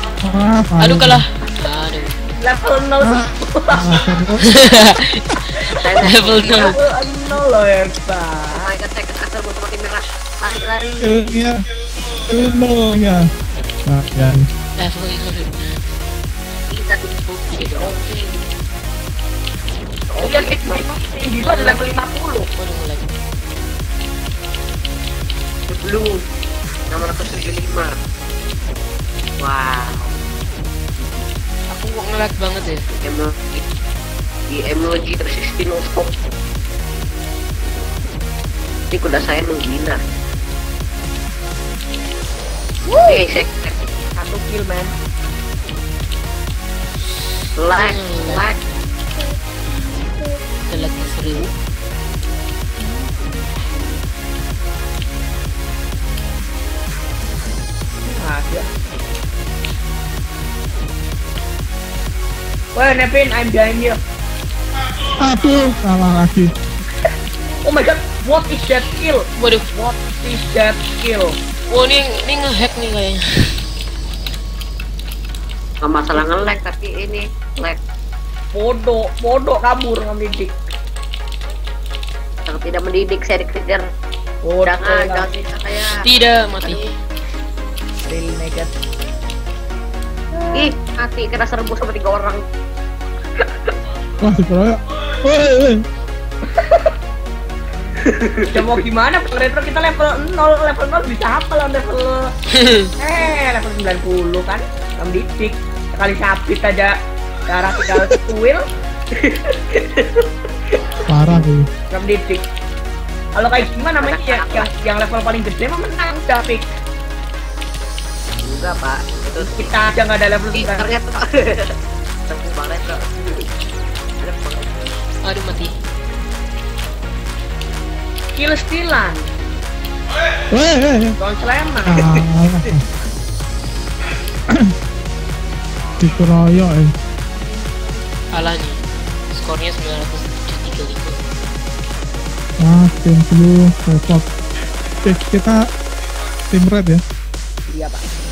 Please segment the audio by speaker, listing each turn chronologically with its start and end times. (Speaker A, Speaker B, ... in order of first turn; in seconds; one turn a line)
Speaker A: 0.2-1.2
Speaker B: 0.8-2.1
Speaker C: 2.4-3.9
Speaker A: 3.0-4.4
Speaker B: 4.5-6.8
Speaker D: 5.8-6.8
Speaker C: 6.6-8.7
Speaker D: 8.5-11.4
Speaker A: 11.0-11.6
Speaker A: 12.3-13.3
Speaker A: 13.9-14.5
Speaker B: 14.8-15.8
Speaker D: 16.7-18.4
Speaker B: 17.2-18.0
Speaker D: 20.1-20.8
Speaker C: 20.2-22.5
Speaker B: 21.4-21.8
Speaker B: 22.6-23.1
Speaker D: 25.7-26.1
Speaker D: 26.9-27.9
Speaker D: 29.4-30.1
Speaker D: 31.0-31.3
Speaker B: 31.7-32.8
Speaker D: 33.0-33.6
Speaker D: 34.5-36.1
Speaker D: 38.9-40.0
Speaker C: 42.9-43.2
Speaker D: 43.0-43.7
Speaker C: 44.1-44.9
Speaker D: 47.6-48.6
Speaker B: 47.7-48.4
Speaker C: 49.9-50.9
Speaker B: 50.7-51.5
Speaker C: 58.0-58.7
Speaker C: 62.7-64.0
Speaker A: 65.2-66.5
Speaker C: 67.6-71.4
Speaker B: 69.4-69.6
Speaker B: 71.7-73.5
Speaker D: 75.8-77.8
Speaker C: 78.5-80.5
Speaker D: 82.5-83.9
Speaker C: 84.4-85.3
Speaker D: 84.6-85.9
Speaker B: 86.0-86.9
Speaker D: 86.6-86.9
Speaker C: 88.1-88.7
Speaker C: 90.3-90.7
Speaker D: 90.5-92.4
Speaker A: 94.2-95.8
Speaker C: 96.5-96.9
Speaker D: 98.0-98.5
Speaker C: 98.5-102.3
Speaker B: 102.6-102.9
Speaker C: 103.0-106.9
Speaker C: 107.5-108.6
Speaker D: 109.1-110.2
Speaker A: 111.1-111.7
Speaker C: 111.9-112.4
Speaker C: 113.3-116.7
Speaker D: 114.0-114.7
Speaker D: 118.4-119.7
Speaker C: 119.4-120.9
Speaker D: 120.5-121.7
Speaker D: 122.3-123.5
Speaker D: 124.2-124.9
Speaker B: 125.2-125.7
Speaker C: 128.3-129.3
Speaker A: 130.5-131.2
Speaker C: 131.2-132.0
Speaker A: 131.9-132.8
Speaker A: 136.0-136.9
Speaker B: 138.3-138.8
Speaker B: 139.3-141.2
Speaker A: 142.6-144.2
Speaker A: 145.0-145.7
Speaker A: 146.5-147.0
Speaker C: 147.7-148.0